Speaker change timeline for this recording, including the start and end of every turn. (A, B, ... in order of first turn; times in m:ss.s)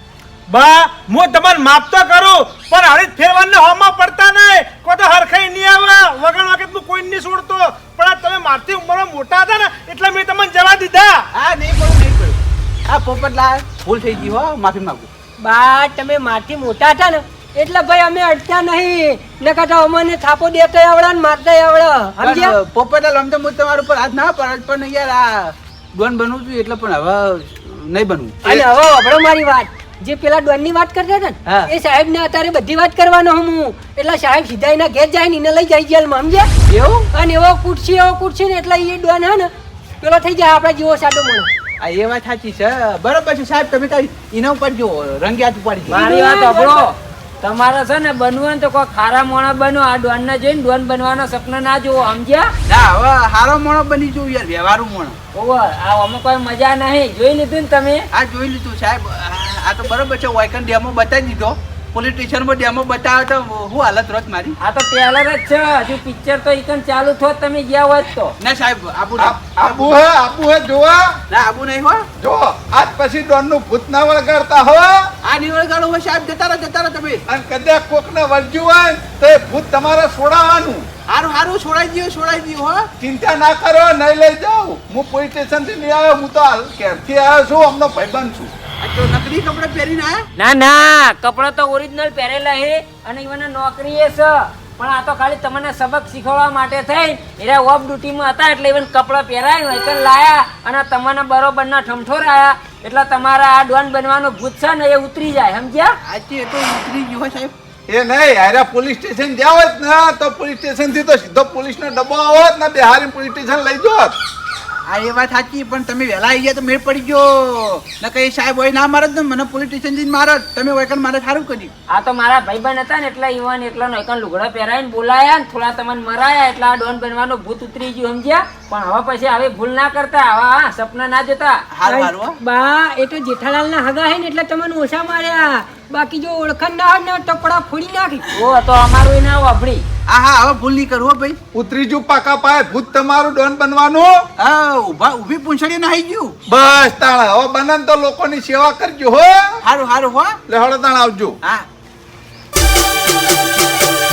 0:00.5-0:11.2 A
0:11.3-0:15.1 B
0:15.4-0:22.5 C
0:22.2-0:28.6 B
0:28.4-0:36.5 C
0:36.7-0:37.1 B
0:37.1-0:39.5 C
0:40.0-0:41.5 C
0:41.8-0:46.0 B
0:45.9-0:46.9 C
0:45.9-0:52.5 D
0:52.7-0:55.2 B
0:55.3-0:58.1 D
0:58.1-1:04.6 B
1:04.6-1:08.4 D
1:08.4-1:09.9 B
1:09.2-1:11.2 E
1:11.3-1:12.1 B
1:12.2-1:15.1 E
1:15.2-1:17.2 B
1:17.3-1:20.9 E
1:21.1-1:22.9 B
1:23.0-1:28.5 E
1:28.8-1:30.3 B
1:30.4-1:45.9 D
1:46.1-1:47.5 B
1:47.9-1:54.1 E
1:54.9-2:01.7 B
2:01.9-2:11.6 D
2:11.7-2:12.4 B
2:11.8-2:18.2 C
2:18.3-2:19.8 D
2:20.1-2:21.4 B
2:21.5-2:24.2 E
2:24.4-2:26.4 B
2:26.5-2:29.6 E
2:29.6-2:30.4 B
2:30.5-2:31.4 E